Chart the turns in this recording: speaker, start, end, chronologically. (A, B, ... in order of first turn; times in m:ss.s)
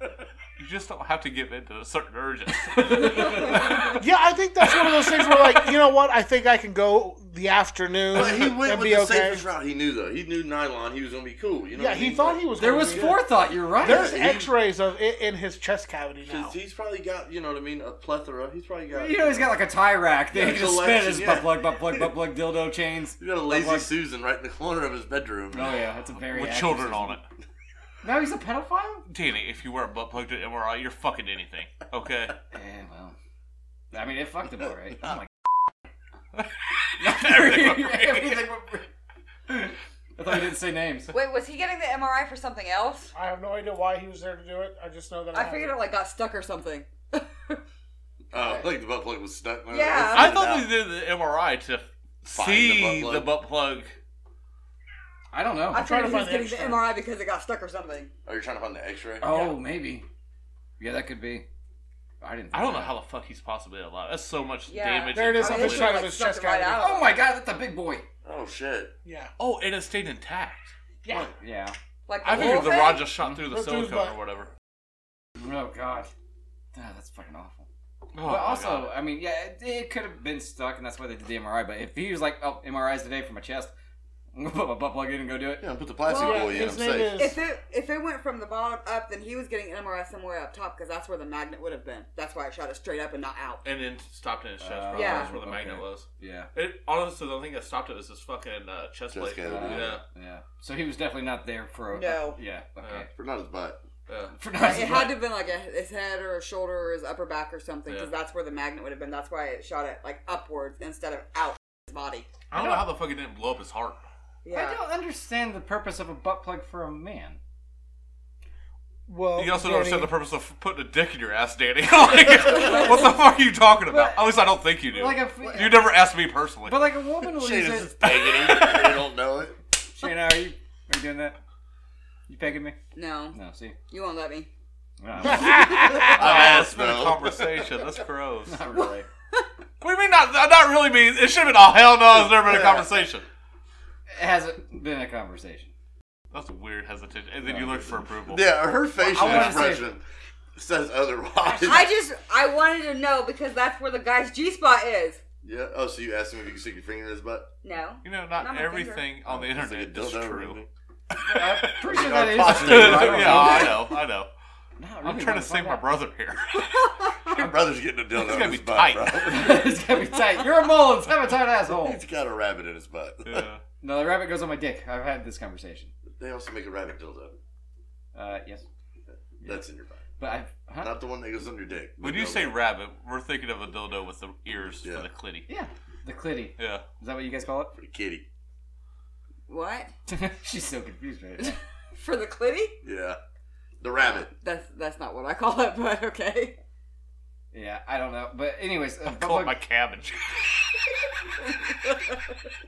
0:00.6-0:03.7 A
0:02.6-0:04.0 B
0:04.0-0:09.4 C
0:08.1-0:13.2 D
0:11.7-0:13.3 C
0:12.6-0:14.1 B
0:13.8-0:14.5 D
0:13.8-0:16.6 C
0:16.2-0:19.6 D
0:18.9-0:23.9 B
0:20.3-0:22.1 D
0:23.2-0:25.8 D
0:25.5-0:27.2 B
0:26.3-0:27.2 A
0:28.0-0:29.0 B
0:29.1-0:32.4 A
0:32.5-0:33.2 B
0:33.9-0:35.3 B
0:36.4-0:38.4 A
0:37.0-0:38.9 B
0:39.5-0:41.1 B
0:41.1-0:43.1 E
0:43.1-0:45.8 C
0:45.3-0:47.6 E
0:48.3-0:50.8 D
0:49.7-0:50.3 E
0:50.1-0:54.0 A
0:52.3-0:53.3 D
0:55.3-0:55.9 B
0:55.7-0:56.9 C
0:55.7-0:58.1 E
0:58.2-0:59.3 D
0:59.2-1:00.0 B
1:00.8-1:01.4 B
1:02.2-1:03.0 B
1:02.5-1:06.1 A
1:04.7-1:07.1 E
1:05.1-1:06.9 C
1:06.8-1:08.0 B
1:08.2-1:08.9 D
1:09.0-1:09.3 C
1:09.4-1:10.7 A
1:11.1-1:11.8 B
1:12.1-1:13.1 E
1:12.2-1:14.5 A
1:12.3-1:13.4 B
1:13.5-1:14.2 C
1:15.4-1:16.1 B
1:16.7-1:17.7 B
1:18.1-1:18.9 A
1:18.2-1:23.7 B
1:24.3-1:25.6 B
1:25.6-1:27.2 D
1:26.0-1:33.6 E
1:26.1-1:27.4 C
1:33.6-1:40.0 A
1:34.6-1:36.5 B
1:34.9-1:35.3 E
1:39.1-1:40.0 D
1:39.4-1:43.1 B
1:41.9-1:42.4 E
1:43.2-1:43.8 D
1:44.1-1:44.4 A
1:44.4-1:45.2 B
1:44.5-1:52.3 E
1:47.9-1:48.1 A
1:52.5-1:54.0 A
1:52.5-1:52.9 B
1:54.4-1:54.8 E
1:54.5-1:57.4 B
1:59.1-2:00.1 C
1:59.3-2:06.9 A
2:02.6-2:03.0 B
2:03.9-2:04.3 B
2:04.9-2:05.9 B
2:05.4-2:05.9 E
2:06.6-2:08.7 B
2:07.3-2:09.6 D
2:09.9-2:11.4 B
2:12.3-2:12.8 B
2:12.9-2:13.4 E
2:13.3-2:13.8 B
2:13.9-2:14.5 E
2:15.0-2:16.1 B
2:15.7-2:17.7 D
2:16.0-2:18.6 A
2:18.4-2:19.1 B
2:18.7-2:19.4 E
2:19.8-2:23.3 A
2:22.1-2:23.1 D
2:24.1-2:25.7 B
2:26.3-2:29.8 A
2:27.5-2:27.9 B
2:28.3-2:30.0 D
2:29.0-2:29.9 B
2:30.6-2:31.9 D
2:31.4-2:35.2 E
2:35.4-2:37.5 D
2:37.6-2:39.1 E
2:38.0-2:40.6 A
2:39.2-2:40.7 D
2:41.2-2:43.8 B
2:41.8-2:43.8 D
2:42.4-2:44.3 A
2:44.8-2:45.8 B
2:45.0-2:47.5 A
2:47.3-2:49.7 D
2:48.2-2:49.3 A
2:49.2-2:52.0 B
2:51.7-2:53.5 D
2:53.2-2:53.6 A
2:53.8-2:55.9 B
2:56.1-2:57.4 D
2:58.1-2:58.6 B
2:59.1-3:00.0 D
3:00.2-3:01.0 B
3:00.8-3:02.6 D
3:02.0-3:05.4 A
3:05.5-3:07.7 B
3:06.6-3:06.8 A
3:07.7-3:08.3 D
3:09.5-3:09.9 E
3:10.1-3:11.6 B
3:11.4-3:12.8 E
3:12.8-3:13.2 D
3:13.8-3:14.3 D
3:14.0-3:16.6 E
3:17.5-3:19.6 B
3:19.0-3:20.6 A